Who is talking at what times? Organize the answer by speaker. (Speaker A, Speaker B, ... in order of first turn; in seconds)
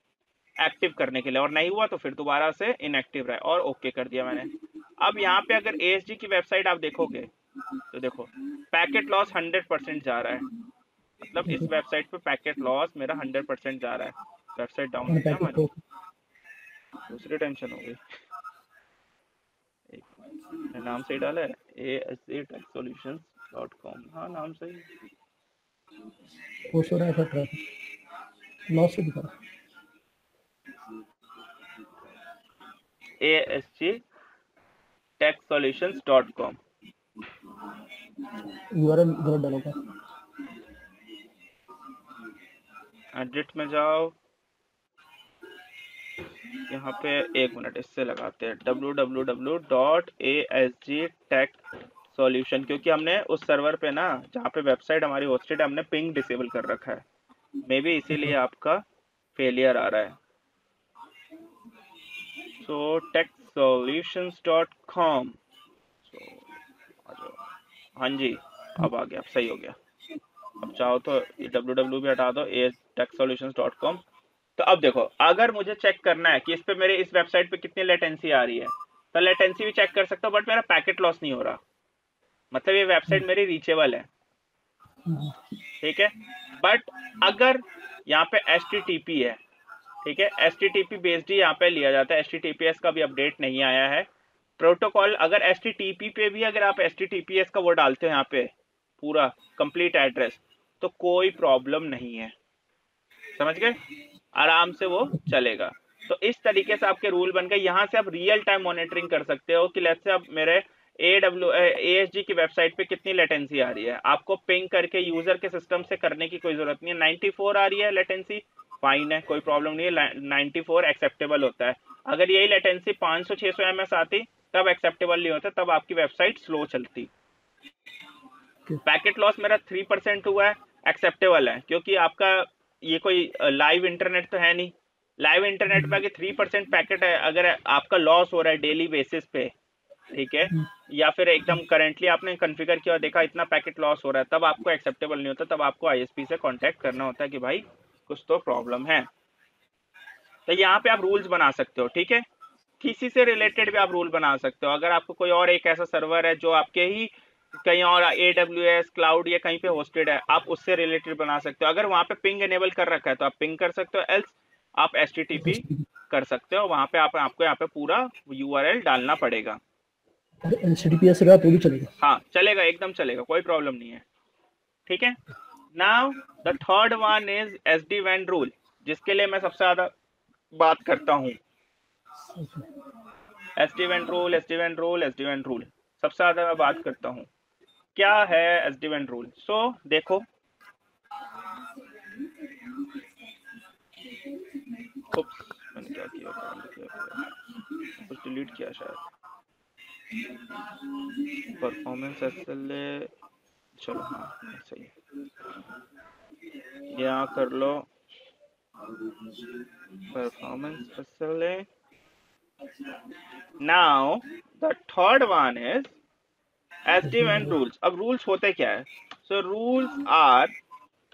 Speaker A: 0.6-7.3, 7.9-10.5, 11.2-15.7, 17.1-18.0, 20.7-24.9, 33.2-34.0, 35.2-36.6, 43.1-44.1, 46.7-51.6, 52.1-57.0, 57.6-58.8, 59.3-60.1, 62.6-65.4, 66.0-66.5, 67.0-67.4, 68.0-69.8, 70.6-74.0, 74.6-81.6, 82.5-84.1, 85.8-89.4, 90.0-94.1, 94.6-102.3, 103.4-103.8, 104.3-127.1, 128.8-139.5, 140.1-149.1, 150.5-152.2, 152.8-157.1, 157.6-169.6, 172.0-174.0, 174.9-175.2, 175.7-179.9, 180.5-181.4, 183.6-187.3, 187.9-190.3, 195.1-197.3, 197.9-199.0, 201.6-203.1, 203.8-204.9, 206.9-207.9, 210.1-211.7, 213.6-215.9, 216.8-220.5
Speaker B: 11.4-11.7, 15.1-15.8, 26.7-27.6, 28.7-29.4, 38.7-39.8, 85.0-85.3, 165.3-165.8, 170.4-171.9, 182.3-182.7, 217.0-217.6